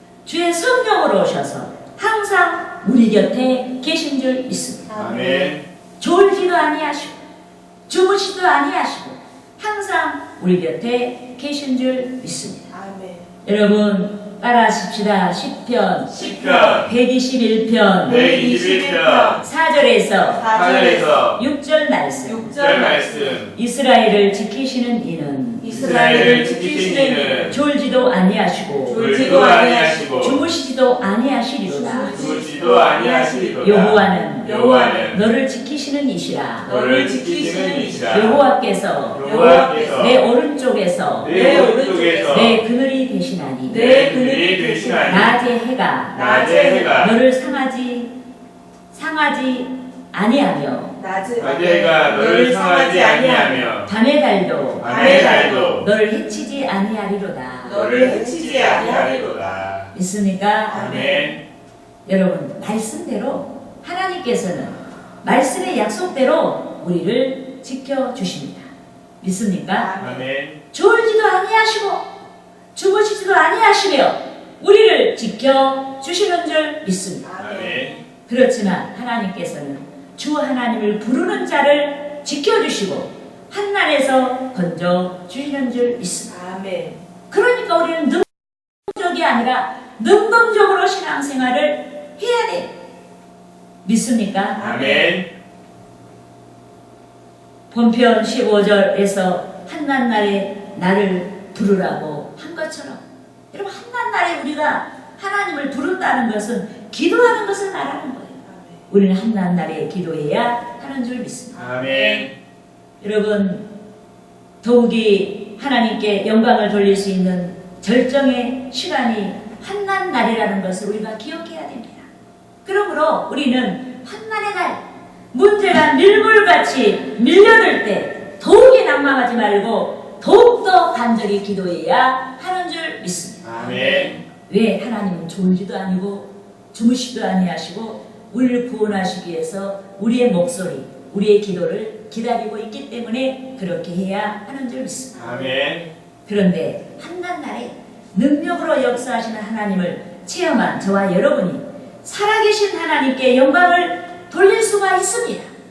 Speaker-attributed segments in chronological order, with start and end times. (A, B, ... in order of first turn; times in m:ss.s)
0:00.2-0:04.9 A
0:04.9-0:05.6 B
0:04.9-0:05.6 C
0:06.0-0:07.2 A
0:07.9-0:12.7 A
0:12.7-0:13.3 B
0:13.4-0:18.3 A
0:16.1-0:16.9 C
0:16.5-0:16.7 B
0:18.0-0:19.4 C
0:18.0-0:19.4 B
0:19.4-0:20.4 A
0:20.3-0:21.2 B
0:20.4-0:21.4 C
0:21.4-0:22.5 A
0:22.2-0:23.4 B
0:22.5-0:23.5 C
0:23.5-0:26.4 A
0:25.6-0:27.5 B
0:25.7-0:27.6 C
0:27.5-0:29.5 A
0:28.9-0:30.0 B
0:28.9-0:30.4 C
0:30.2-0:32.3 A
0:31.6-0:33.8 B
0:32.1-0:35.2 C
0:33.6-0:36.7 A
0:34.4-0:35.1 B
0:36.6-0:38.4 C
0:36.7-0:38.4 B
0:38.1-0:39.2 A
0:39.1-0:40.2 C
0:39.2-0:40.1 B
0:40.0-0:41.8 A
0:41.2-0:42.6 C
0:41.3-0:42.6 B
0:42.3-0:43.9 A
0:43.7-0:45.4 B
0:43.7-0:45.4 C
0:45.1-0:46.3 A
0:46.1-0:47.0 B
0:46.1-0:47.2 C
0:47.0-0:48.1 A
0:48.9-0:51.0 A
0:51.0-0:53.6 B
0:51.4-0:53.9 C
0:53.8-0:58.0 A
0:54.8-0:55.9 C
0:54.8-0:55.8 B
0:57.6-0:59.5 B
0:57.6-0:59.9 C
0:59.9-1:00.9 A
1:00.7-1:01.4 B
1:00.7-1:01.4 C
1:02.0-1:08.7 A
1:09.2-1:09.9 A
1:09.7-1:10.2 B
1:10.0-1:10.6 C
1:10.7-1:12.1 A
1:12.7-1:17.3 A
1:17.2-1:18.0 B
1:17.4-1:18.0 C
1:18.3-1:26.3 A
1:26.3-1:27.0 B
1:27.3-1:32.7 A
1:33.8-1:34.6 A
1:34.6-1:35.2 B
1:34.6-1:35.3 C
1:37.7-1:51.6 A
1:48.4-1:48.8 B
1:51.5-1:52.3 C
1:53.0-1:53.7 A
1:54.6-2:02.1 A
2:02.6-2:04.8 A
2:05.3-2:13.9 A
2:13.4-2:14.1 C
2:13.6-2:14.2 B
2:14.5-2:25.3 A
2:25.1-2:25.9 B
2:25.2-2:25.8 C
2:26.2-2:35.5 A